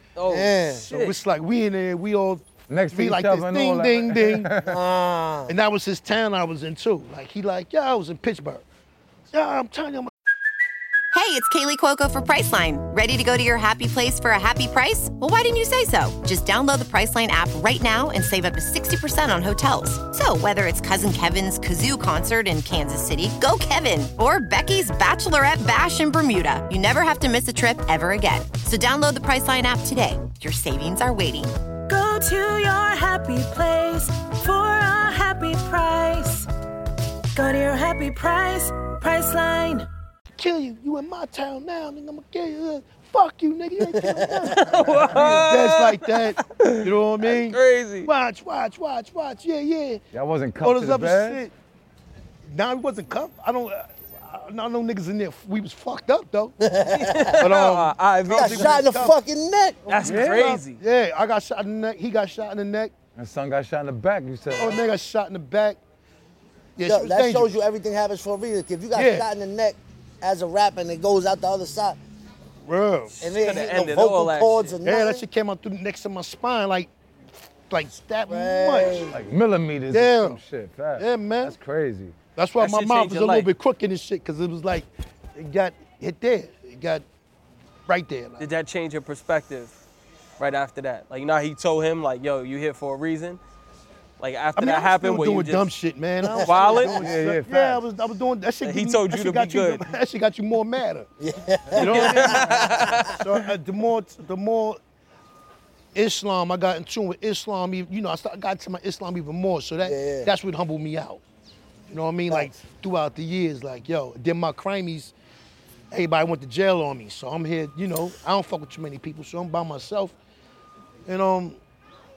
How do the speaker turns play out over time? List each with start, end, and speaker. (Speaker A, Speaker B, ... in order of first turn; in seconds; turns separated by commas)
Speaker A: 0.2-1.1, Speaker B: 0.2-0.9, Speaker C: 0.9-4.5, Speaker D: 2.7-4.8, Speaker B: 4.6-5.5, Speaker C: 5.5-8.6, Speaker C: 9.3-10.1, Speaker E: 11.1-31.5, Speaker F: 31.9-36.5, Speaker F: 37.3-39.9, Speaker C: 40.4-50.0, Speaker B: 43.9-44.5, Speaker A: 44.5-48.1, Speaker D: 50.1-51.4, Speaker C: 50.6-51.5, Speaker C: 52.5-56.5, Speaker B: 56.6-57.4, Speaker A: 56.9-58.8, Speaker C: 57.4-59.1, Speaker B: 58.3-59.9, Speaker A: 59.9-60.8, Speaker C: 59.9-62.9, Speaker D: 60.0-60.6, Speaker D: 63.1-64.8, Speaker C: 64.5-65.8, Speaker C: 66.8-67.5, Speaker B: 66.8-72.0, Speaker C: 68.9-69.3, Speaker C: 72.6-73.1, Speaker A: 73.1-74.7, Speaker B: 73.2-75.2, Speaker C: 74.8-76.9, Speaker C: 77.7-79.0, Speaker B: 78.3-79.2, Speaker D: 79.1-82.2, Speaker C: 79.9-80.4, Speaker C: 81.0-81.5, Speaker C: 82.3-87.0, Speaker A: 82.6-83.5, Speaker C: 87.9-88.5, Speaker A: 88.4-89.7, Speaker A: 90.4-93.4, Speaker A: 94.2-95.7, Speaker C: 94.5-101.1, Speaker B: 96.2-96.8, Speaker A: 96.4-97.0, Speaker D: 97.0-97.8, Speaker A: 98.6-99.8, Speaker B: 101.2-102.9, Speaker C: 101.7-102.5, Speaker A: 101.8-103.4, Speaker C: 103.1-104.8, Speaker C: 105.9-111.2, Speaker B: 109.8-110.3, Speaker C: 111.9-115.1, Speaker B: 112.3-112.5, Speaker C: 115.9-120.2, Speaker C: 121.0-121.6